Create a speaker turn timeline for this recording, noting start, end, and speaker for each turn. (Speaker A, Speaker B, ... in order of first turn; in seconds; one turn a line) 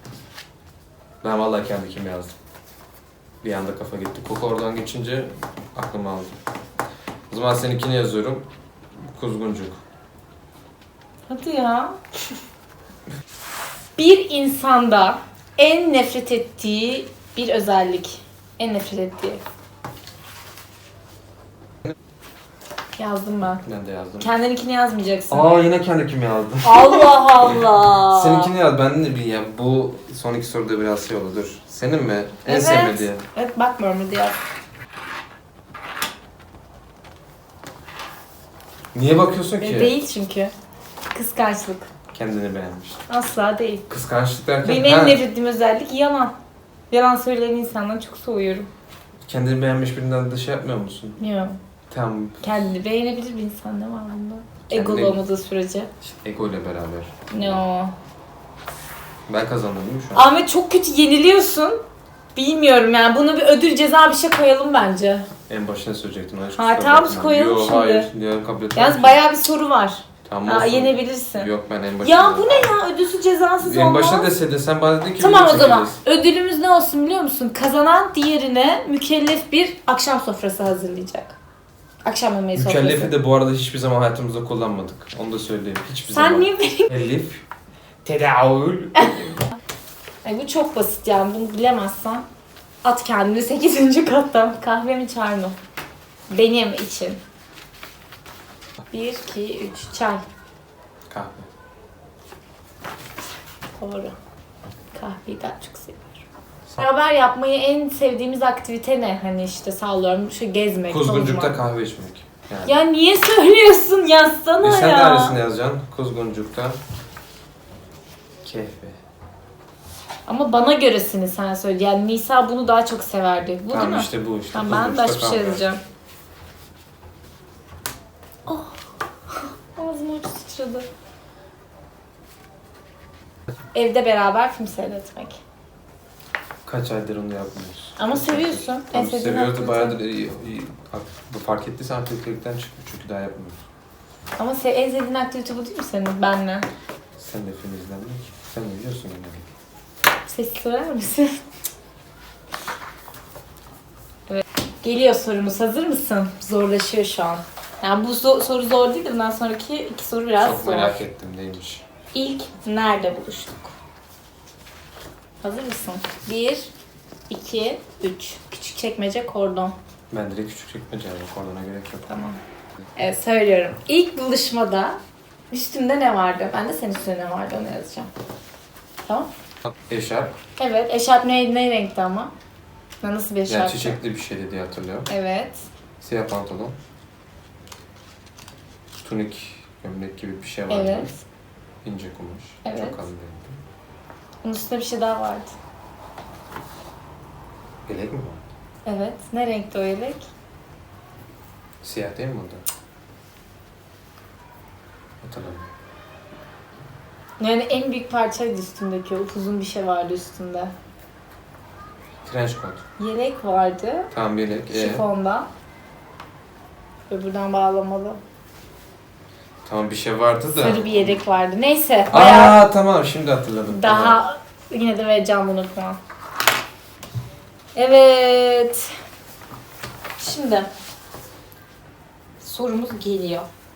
Speaker A: 1.2-2.4
Speaker A: 3.4-6.4
Speaker A: 7.3-8.5
Speaker A: 9.0-9.8
Speaker B: 11.3-12.0
Speaker B: 14.0-19.4
Speaker B: 23.0-23.6
Speaker A: 23.6-24.3
Speaker B: 24.2-25.5
Speaker A: 25.3-33.2
Speaker B: 26.6-28.5
Speaker B: 32.5-34.4
Speaker A: 38.9-39.9
Speaker B: 39.6-40.5
Speaker B: 41.1-41.9
Speaker A: 42.1-43.0
Speaker B: 43.1-43.9
Speaker A: 43.9-45.2
Speaker B: 44.6-46.4
Speaker B: 46.9-48.7
Speaker A: 49.3-51.2
Speaker B: 51.2-51.6
Speaker A: 51.9-52.5
Speaker B: 52.4-55.9
Speaker A: 54.7-55.2
Speaker A: 56.0-57.6
Speaker B: 57.3-57.9
Speaker A: 59.3-60.2
Speaker B: 60.1-61.8
Speaker B: 62.4-65.3
Speaker A: 65.5-69.2
Speaker B: 66.6-68.1
Speaker B: 68.8-71.5
Speaker A: 70.2-72.7
Speaker B: 72.0-74.3
Speaker A: 73.6-76.0
Speaker B: 75.2-81.4
Speaker B: 82.0-83.1
Speaker A: 82.5-87.4
Speaker B: 86.1-86.9
Speaker A: 88.0-89.5
Speaker B: 90.2-92.3
Speaker B: 92.8-95.6
Speaker B: 96.3-97.2
Speaker B: 98.9-100.2
Speaker A: 101.1-101.5
Speaker B: 103.8-104.1
Speaker B: 104.9-106.2
Speaker B: 106.8-111.6
Speaker A: 110.9-112.8
Speaker B: 112.7-115.4
Speaker A: 114.6-116.8
Speaker A: 118.4-119.0
Speaker B: 120.3-125.8
Speaker A: 123.7-125.7
Speaker B: 128.5-130.9
Speaker B: 133.7-135.4
Speaker A: 136.7-143.6
Speaker B: 138.0-140.0
Speaker B: 144.4-146.7
Speaker A: 147.2-149.5
Speaker B: 150.3-151.4
Speaker B: 154.3-161.0
Speaker A: 160.4-161.8
Speaker B: 162.1-163.7
Speaker B: 165.4-166.7
Speaker B: 167.3-169.8
Speaker A: 170.1-172.1
Speaker B: 172.1-172.4
Speaker B: 173.0-175.0
Speaker B: 175.5-178.1
Speaker A: 179.7-180.3
Speaker B: 180.6-182.3
Speaker B: 183.0-184.0
Speaker A: 183.5-185.1
Speaker B: 185.1-185.7
Speaker A: 186.0-186.8
Speaker A: 189.0-191.1
Speaker B: 190.7-191.2
Speaker A: 191.8-193.6
Speaker B: 192.7-193.0
Speaker B: 194.4-195.5
Speaker A: 197.9-198.4
Speaker B: 198.9-200.3
Speaker A: 201.8-202.6
Speaker A: 205.2-205.7
Speaker B: 207.4-210.7
Speaker A: 212.2-212.8
Speaker B: 213.0-214.1
Speaker A: 214.1-215.1
Speaker B: 214.7-215.5
Speaker B: 217.1-218.2
Speaker A: 219.7-221.2
Speaker B: 220.5-222.6
Speaker A: 222.1-224.2
Speaker B: 223.7-226.0
Speaker B: 227.8-228.9
Speaker B: 230.2-230.7
Speaker B: 232.4-233.5